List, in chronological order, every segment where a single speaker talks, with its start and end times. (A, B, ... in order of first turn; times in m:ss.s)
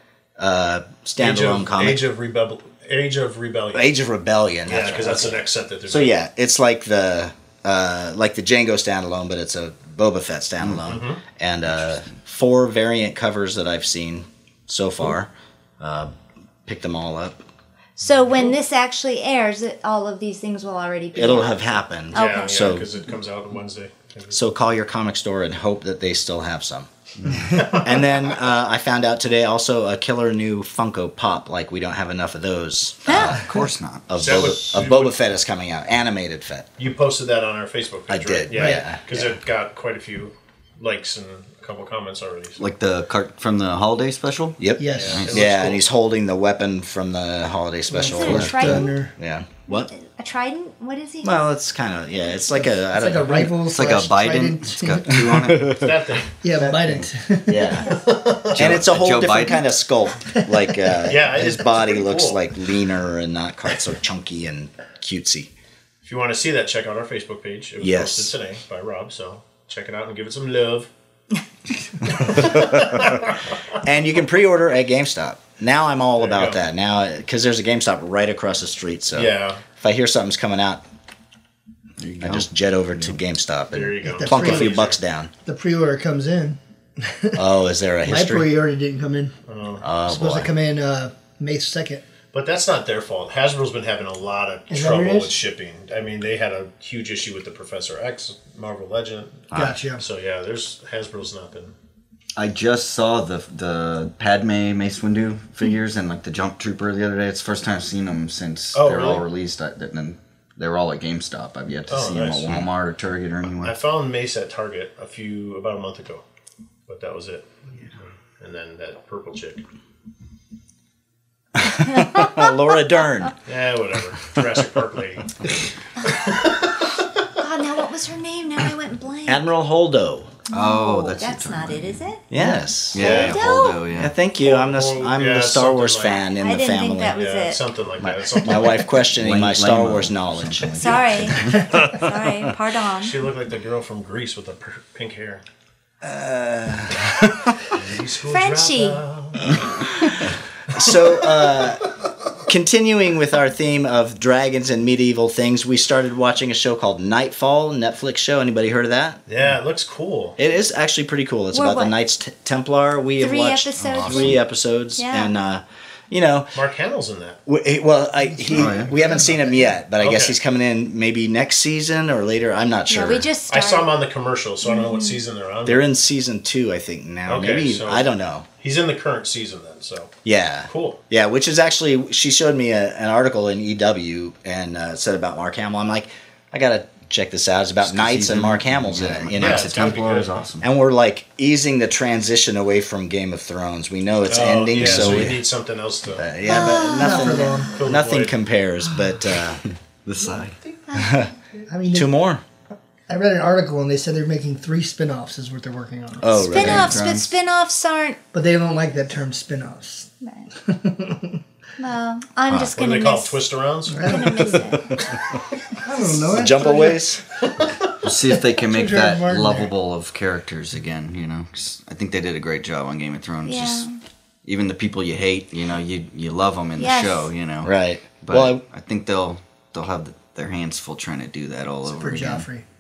0:00.4-0:02.0 A
0:01.2-0:03.9 B
0:03.7-0:16.1 A
0:04.7-0:06.1 B
0:10.9-0:11.2 B
0:16.6-0:17.4 A
0:18.0-0:22.5 C
0:21.1-0:22.9 A
0:22.1-0:24.4 B
0:24.3-0:26.9 A
0:27.2-0:27.5 D
0:27.5-0:28.1 B
0:27.8-0:33.5 A
0:33.1-0:33.4 C
0:33.3-0:34.3 D
0:34.1-0:36.7 A
0:34.2-0:35.2 B
0:36.8-0:42.6 B
0:38.1-0:39.3 A
0:38.5-0:38.9 E
0:42.6-0:45.5 D
0:44.6-0:49.9 A
0:44.8-0:45.2 E
0:44.8-0:45.8 B
0:47.9-0:49.1 E
0:48.0-0:49.0 C
0:48.3-0:48.8 D
0:49.7-0:51.4 C
0:51.2-0:53.6 A
0:52.6-0:55.5 E
0:53.6-0:55.9 D
0:55.5-0:55.8 A
0:55.8-0:56.3 B
0:56.4-0:57.8 E
0:56.6-0:58.0 A
0:57.8-0:58.8 B
0:58.6-0:59.6 D
0:58.6-1:05.5 A
1:01.0-1:02.4 B
1:06.0-1:10.9 B
1:07.8-1:08.3 A
1:12.1-1:13.4 B
1:13.8-1:20.8 A
1:16.2-1:16.6 B
1:19.1-1:19.6 B
1:22.0-1:22.5 D
1:22.2-1:25.3 A
1:23.7-1:25.0 B
1:24.0-1:24.8 E
1:25.4-1:27.4 E
1:27.3-1:28.5 A
1:28.0-1:29.3 E
1:29.5-1:29.8 B
1:29.8-1:30.5 A
1:30.0-1:32.0 E
1:32.3-1:41.7 B
1:34.7-1:35.3 E
1:39.5-1:39.8 A
1:39.5-1:40.0 E
1:42.4-1:53.8 D
1:48.7-1:49.2 B
1:51.9-1:52.5 B
1:53.6-1:56.2 B
1:56.9-1:57.6 B
1:58.4-1:59.6 B
2:01.6-2:03.3 A
2:03.4-2:05.4 B
2:06.1-2:06.9 B
2:07.4-2:09.4 C
2:09.2-2:10.3 A
2:10.5-2:12.0 D
2:10.5-2:12.2 C
2:12.3-2:13.3 A
2:12.4-2:12.7 E
2:12.9-2:14.1 D
2:13.0-2:13.4 B
2:13.0-2:13.8 C
2:13.9-2:17.2 A
2:14.4-2:16.2 B
2:16.3-2:17.6 C
2:17.1-2:18.9 B
2:18.0-2:21.0 A
2:19.1-2:21.6 D
2:20.8-2:23.1 C
2:23.0-2:25.4 B
2:26.0-2:27.6 A
2:27.7-2:29.6 B
2:28.3-2:29.0 C
2:30.7-2:31.9 A
2:32.4-2:39.2 A
2:39.3-2:40.4 B
2:40.4-2:46.6 A
2:41.5-2:41.9 C
2:43.2-2:44.4 C
2:43.9-2:44.3 D
2:45.0-2:45.3 C
2:46.6-2:47.4 B
2:47.4-2:53.3 A
2:48.3-2:49.7 E
2:48.5-2:48.9 D
2:50.0-2:50.4 B
2:52.9-2:53.9 C
2:53.5-2:55.8 B
2:54.6-2:55.2 C
2:55.6-2:58.4 A
2:57.2-2:58.1 B
2:58.6-3:00.1 B
3:00.2-3:09.7 A
3:00.7-3:01.0 B
3:07.8-3:10.6 D
3:09.3-3:10.4 B
3:10.6-3:15.4 A
3:14.3-3:16.2 B
3:14.8-3:15.3 D
3:16.2-3:19.6 A
3:16.4-3:17.7 C
3:16.9-3:17.7 E
3:17.8-3:18.4 B
3:20.0-3:20.6 D
3:20.9-3:21.2 C
3:20.9-3:21.3 A
3:21.7-3:22.1 E
3:21.9-3:22.4 A
3:23.1-3:26.7 E
3:26.2-3:27.0 A
3:26.4-3:28.2 C
3:26.5-3:27.3 D
3:28.3-3:31.4 E
3:30.2-3:30.5 C
3:31.8-3:33.4 C
3:32.8-3:34.4 B
3:33.9-3:34.7 E
3:34.0-3:35.0 C
3:35.8-3:37.1 E
3:36.3-3:37.2 A
3:37.6-3:37.9 B
3:38.0-3:43.9 D
3:38.6-3:39.7 E
3:43.4-3:44.0 C
3:44.4-3:52.4 D
3:46.8-3:47.3 C
3:47.6-3:48.6 A
3:51.9-3:52.6 E